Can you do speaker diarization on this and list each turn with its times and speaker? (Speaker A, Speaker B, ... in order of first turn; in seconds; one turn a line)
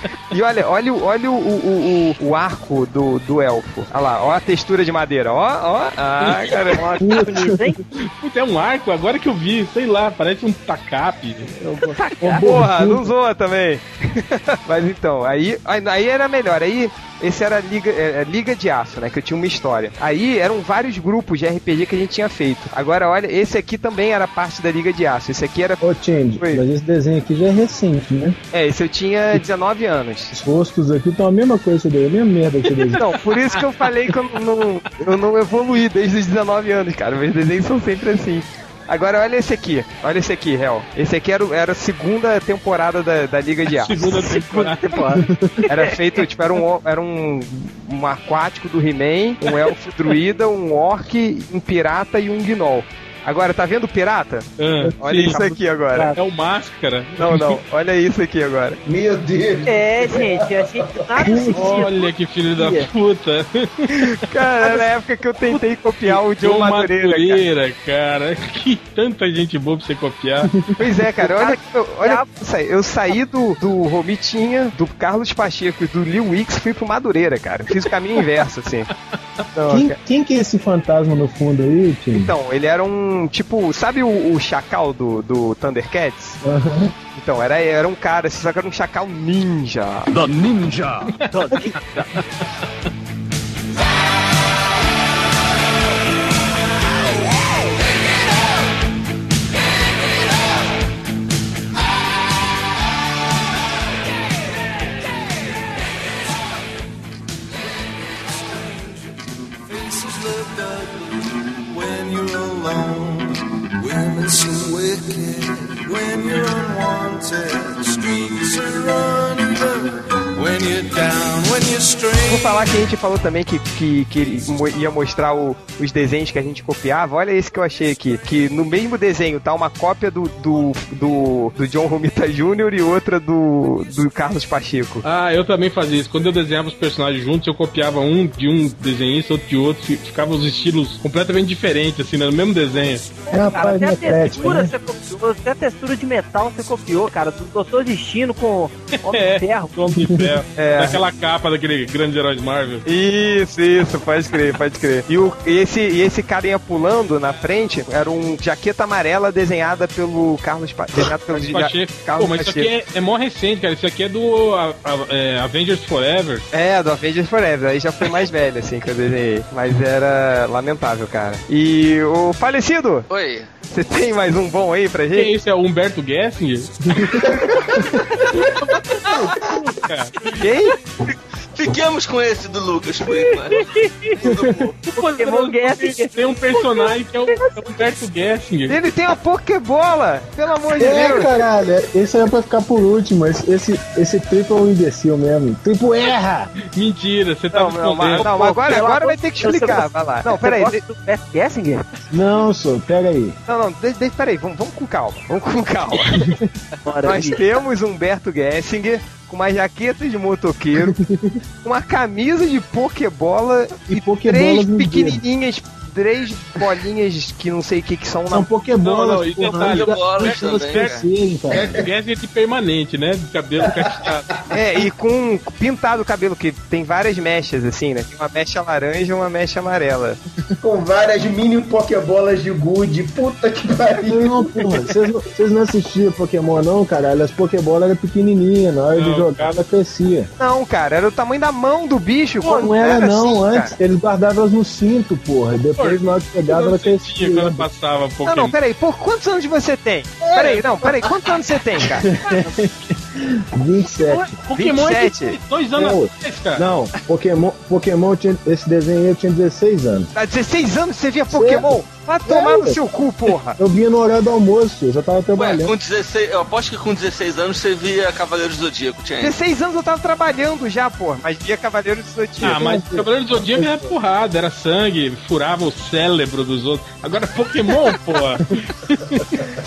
Speaker A: 0.3-7.0
Speaker B: 6.7-7.8
Speaker C: 7.0-7.7
Speaker D: 8.1-11.6
Speaker B: 11.8-12.4
Speaker C: 12.2-13.1
Speaker A: 12.3-25.8
Speaker C: 25.8-28.4
Speaker A: 28.5-30.3
Speaker C: 30.3-33.0
Speaker D: 32.9-33.9
Speaker A: 33.0-44.4
Speaker D: 43.7-45.0
Speaker B: 44.1-45.2
Speaker C: 45.3-45.5
Speaker A: 45.7-54.5
Speaker D: 54.6-55.5
Speaker A: 55.0-56.1
Speaker D: 56.1-57.6
Speaker A: 57.2-58.8
Speaker E: 58.9-61.0
Speaker B: 59.6-62.9
Speaker C: 61.2-61.8
Speaker D: 61.5-64.1
Speaker A: 64.1-67.4
Speaker D: 66.0-70.5
Speaker A: 70.8-78.9
Speaker B: 71.3-72.3
Speaker A: 79.5-79.9
Speaker C: 79.7-82.3
Speaker A: 82.1-86.4
Speaker C: 86.4-86.9
Speaker A: 87.1-90.1
Speaker F: 90.2-91.1
Speaker B: 91.3-91.8
Speaker F: 108.1-122.8
Speaker A: 122.3-135.0
Speaker D: 135.0-143.1
Speaker C: 143.3-144.7
Speaker B: 143.3-149.7
Speaker D: 149.1-152.8
Speaker C: 150.0-150.4
Speaker A: 150.6-151.0
Speaker A: 152.8-162.7
Speaker D: 161.3-166.4
Speaker A: 166.5-173.1
Speaker G: 173.1-173.5
Speaker A: 173.7-175.3
Speaker D: 175.1-177.3
Speaker D: 178.7-180.3
Speaker A: 180.4-180.7
Speaker G: 181.5-183.7
Speaker B: 183.5-184.1
Speaker G: 184.2-184.8
Speaker C: 184.2-184.7
Speaker B: 184.9-187.5
Speaker D: 184.9-188.8
Speaker A: 188.7-191.3
Speaker C: 190.8-196.5
Speaker D: 196.7-198.8
Speaker A: 197.5-200.8
Speaker B: 198.2-201.8
Speaker C: 202.1-203.4
Speaker A: 203.5-206.3
Speaker B: 206.8-207.4
Speaker A: 207.0-210.9
Speaker C: 210.7-211.4
Speaker A: 211.6-218.5
Speaker C: 213.9-215.2
Speaker C: 218.3-221.9
Speaker D: 218.8-221.0
Speaker G: 219.5-221.0
Speaker D: 221.8-224.3
Speaker A: 224.5-230.2
Speaker E: 230.6-234.7
Speaker C: 234.0-240.3
Speaker D: 238.9-239.5
Speaker A: 240.4-243.7
Speaker C: 242.4-247.7
Speaker D: 245.8-248.5
Speaker A: 248.2-252.1
Speaker C: 251.8-254.4
Speaker D: 254.1-256.6
Speaker A: 254.6-255.4
Speaker C: 255.7-260.1
Speaker A: 260.1-263.6
Speaker C: 261.3-261.7
Speaker C: 262.2-262.8
Speaker C: 263.6-265.7
Speaker G: 265.3-269.3
Speaker A: 269.2-272.7
Speaker C: 272.4-273.9
Speaker D: 272.4-279.4